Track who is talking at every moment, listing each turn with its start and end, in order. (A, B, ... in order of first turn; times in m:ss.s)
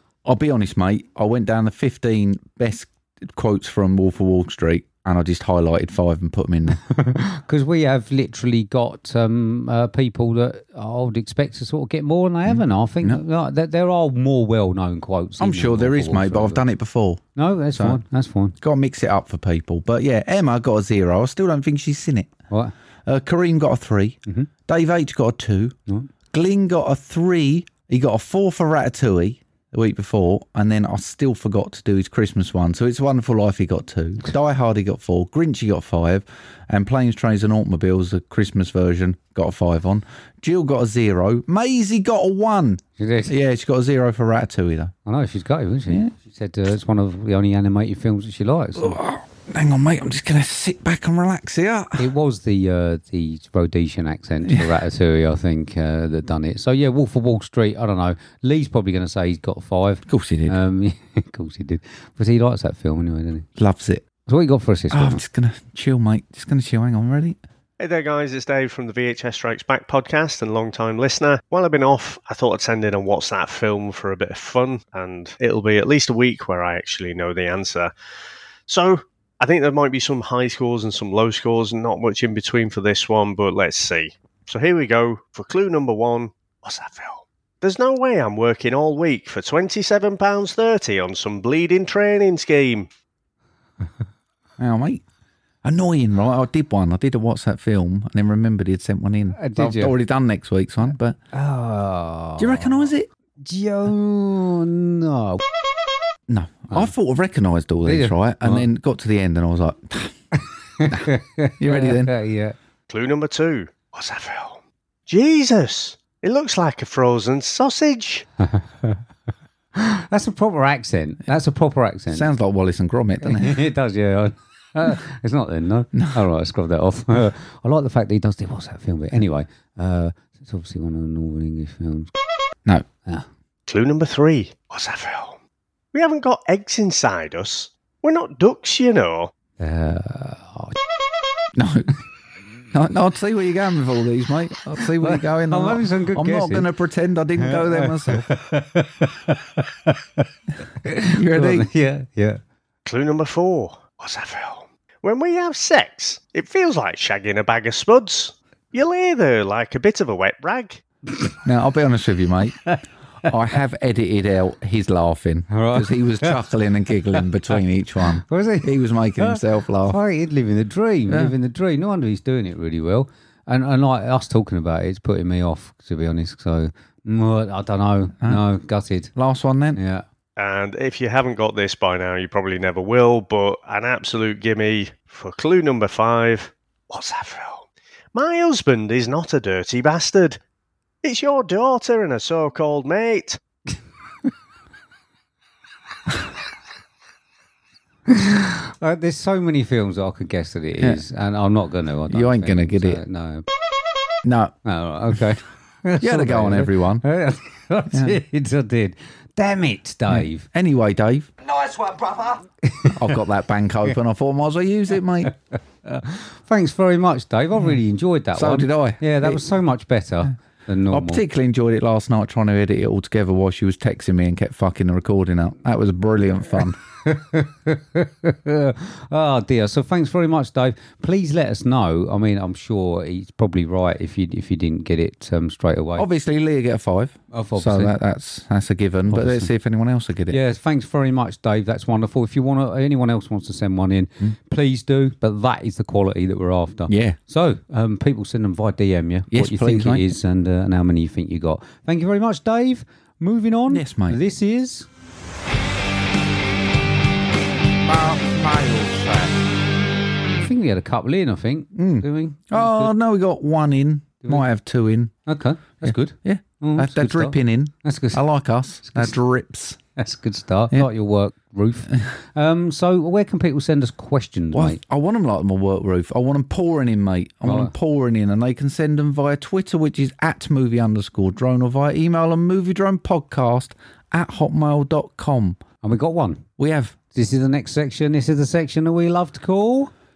0:00.3-0:06.8 A
0:06.7-0:16.6 B
0:12.5-0:13.2 A
0:15.4-0:17.2 A
0:17.4-0:18.6 B
0:17.8-0:18.0 A
0:18.6-0:22.3 A
0:23.1-0:25.8 A
0:26.3-0:44.9 A
0:43.0-0:43.3 B
0:45.1-0:49.0 B
0:48.8-0:52.1 A
0:52.0-1:03.5 B
1:00.1-1:00.6 A
1:03.6-1:04.0 A
1:04.3-1:05.2 B
1:04.9-1:07.4 A
1:07.8-1:17.9 C
1:18.7-1:32.9 C
1:34.6-1:35.0 A
1:35.6-1:41.2 A
1:39.4-1:39.9 B
1:41.3-1:45.4 B
1:42.4-1:43.1 A
1:46.3-1:50.1 A
1:47.8-1:48.7 B
1:50.4-1:52.6 B
1:50.9-1:52.2 A
1:52.9-1:58.3 C
1:58.4-1:59.0 B
1:59.7-2:02.3 B
2:02.1-2:03.6 A
2:03.2-2:12.1 B
2:05.9-2:06.2 A
2:13.7-2:15.4 C
2:15.9-2:19.3 C
2:19.6-2:20.8 B
2:21.6-2:22.0 A
2:22.7-2:28.3 A
2:24.8-2:26.7 B
2:27.4-2:30.3 B
2:30.8-2:32.4 B
2:31.0-2:31.7 A
2:32.9-2:40.8 C
2:41.4-2:42.6 A
2:42.5-2:42.8 B
2:43.2-2:50.0 A
2:45.5-2:59.1 B
2:51.1-2:51.3 A
2:59.2-2:59.8 A
2:59.7-3:00.0 B
3:00.4-3:10.4 C
3:11.0-3:13.4 C
3:18.1-3:23.5 B
3:22.1-3:23.0 A
3:24.2-3:24.5 A
3:24.6-3:30.5 B
3:26.0-3:27.0 A
3:27.9-3:28.2 A
3:30.1-3:31.3 A
3:31.5-3:33.2 B
3:32.9-3:35.3 A
3:35.8-3:41.2 B
3:38.3-3:39.4 A
3:40.9-3:46.8 A
3:46.6-3:56.1 B
3:56.0-4:00.4 A
3:57.3-3:58.0 B
3:59.1-3:59.5 B
4:00.3-4:14.9 B
4:06.9-4:07.2 A
4:09.3-4:10.1 A
4:13.7-4:14.2 A
4:17.8-4:19.4 A
4:20.3-4:22.9 B
4:21.8-4:25.1 A
4:25.3-4:28.2 B
4:25.8-4:29.8 A
4:28.8-4:29.2 B
4:30.0-4:34.8 B
4:34.5-4:45.6 A
4:37.4-4:37.7 B
4:45.8-4:46.5 B
4:46.6-4:47.0 A
4:47.1-4:49.9 B